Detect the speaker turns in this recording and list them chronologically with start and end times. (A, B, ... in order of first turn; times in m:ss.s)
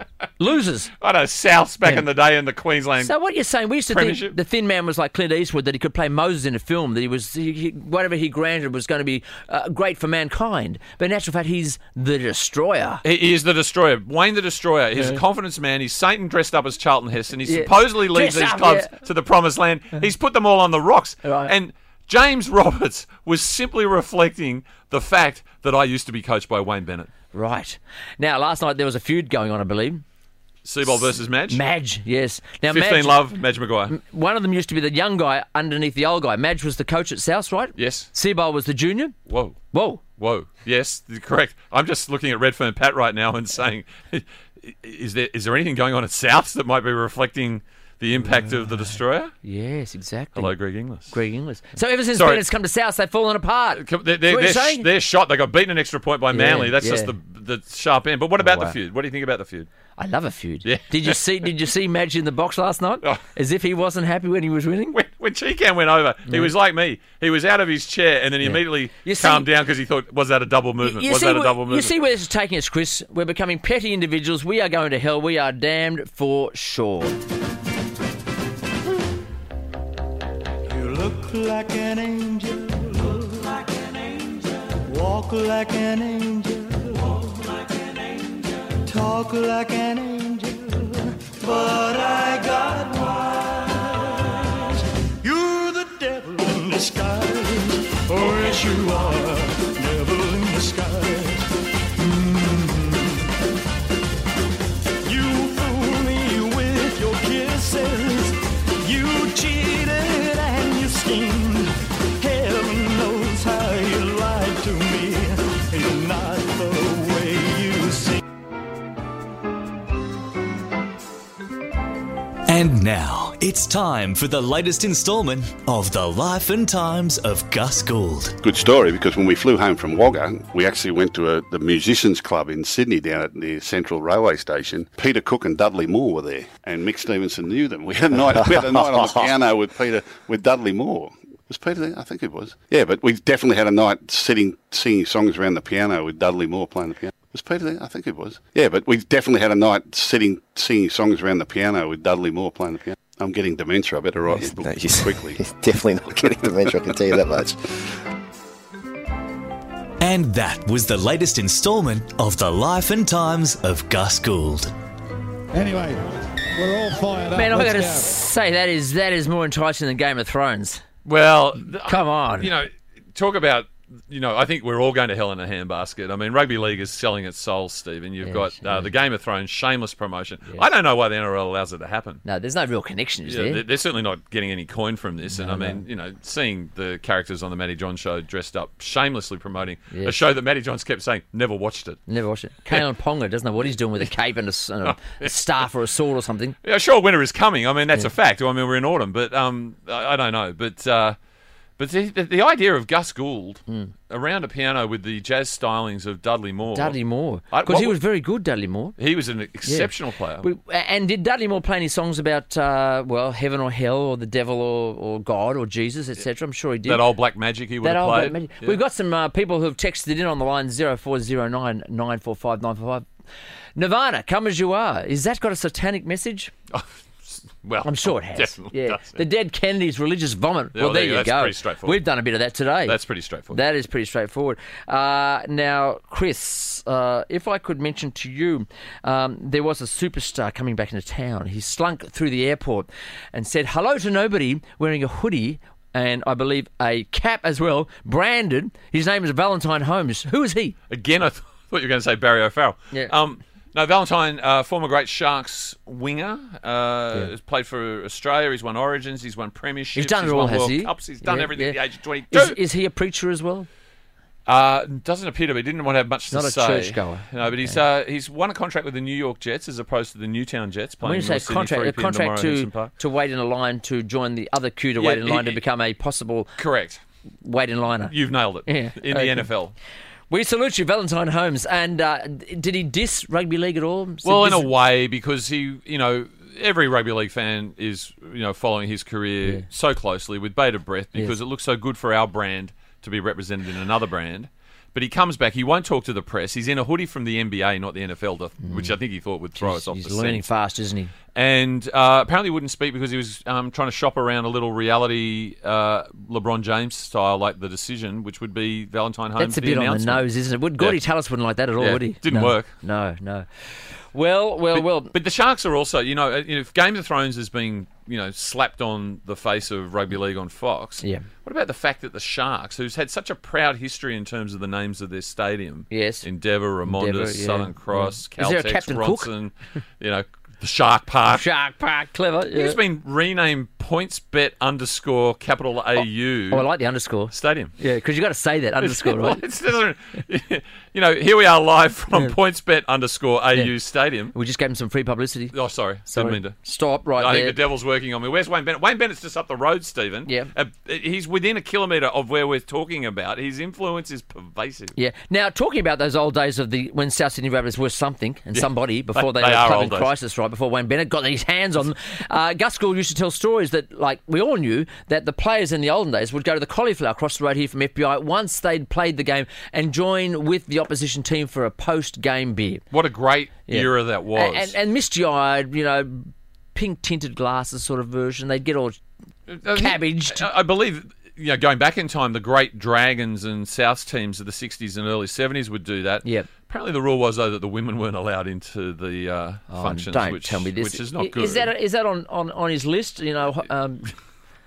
0:00.4-0:00.9 A
0:01.0-0:03.1 B
0:03.0-0:13.0 A
0:03.9-0:04.3 B
0:13.0-0:27.1 B
0:17.5-0:18.9 A
0:21.2-0:21.5 A
0:27.3-0:30.0 A
0:30.6-0:31.6 B
0:30.9-0:33.2 A
0:32.7-0:33.9 B
0:33.9-0:39.1 A
0:37.8-0:38.1 B
0:39.3-0:39.6 B
0:39.7-0:40.0 A
0:40.2-0:49.3 B
0:49.4-0:50.5 A
0:50.4-0:51.1 B
0:51.1-0:54.8 A
0:52.1-0:52.4 B
0:53.8-0:59.7 B
0:56.3-0:57.1 A
0:58.4-0:58.7 A
1:00.0-1:05.0 A
1:00.6-1:01.2 B
1:04.9-1:11.9 B
1:08.4-1:09.5 A
1:10.8-1:17.2 A
1:20.7-1:43.3 C
1:45.0-1:58.2 C
2:02.5-2:08.4 D
2:08.4-2:35.4 E
2:18.5-2:19.3 F
2:34.3-2:37.6 F
2:40.0-2:44.7 D
2:45.5-2:46.0 G
2:46.6-2:48.1 G
2:47.3-2:50.8 A
2:51.0-3:02.2 B
2:51.9-2:52.5 A
2:58.2-2:58.9 A
3:02.2-3:03.6 A
3:03.2-3:12.0 B
3:05.3-3:05.8 A
3:09.9-3:10.2 A
3:12.1-3:16.5 A
3:14.8-3:15.3 B
3:16.6-3:21.2 B
3:21.8-3:27.0 B
3:26.7-3:28.9 A
3:27.5-3:28.0 B
3:29.0-3:30.5 B
3:29.6-3:29.9 A
3:30.4-3:37.0 A
3:36.8-3:38.8 B
3:37.8-3:43.0 A
3:43.8-3:46.5 A
3:46.7-3:49.2 B
3:47.8-3:53.0 A
3:50.7-3:52.0 B
3:52.9-3:53.6 B
3:53.5-4:10.7 A
4:10.9-4:22.6 B
4:19.9-4:21.8 A
4:22.3-4:23.7 A
4:24.4-4:32.9 B
4:26.3-4:27.8 A
4:31.0-4:36.5 A
4:35.0-4:35.6 B
4:36.6-4:37.0 B
4:37.4-4:38.1 A
4:38.1-4:39.7 B
4:38.6-4:39.5 A
4:40.3-4:44.7 A
4:44.2-5:00.5 B
4:58.6-4:58.9 A
4:59.6-5:01.1 A
5:01.3-5:10.2 B
5:09.4-5:13.4 A
5:11.8-5:12.7 B
5:14.1-5:15.1 A
5:14.7-5:31.4 B
5:25.9-5:26.2 A
5:26.9-5:29.3 A
5:31.3-5:32.8 A
5:32.5-5:36.7 B
5:36.5-5:39.4 A
5:37.3-5:37.7 B
5:38.8-5:44.3 B
5:44.3-5:45.5 A
5:45.5-5:46.6 B
5:46.1-5:47.6 A
5:47.2-5:54.9 B
5:55.0-6:12.8 A
5:58.5-6:00.1 B
6:12.9-6:14.7 B
6:13.7-6:19.0 A
6:19.5-6:31.7 B
6:19.7-6:20.5 A
6:29.7-6:34.1 A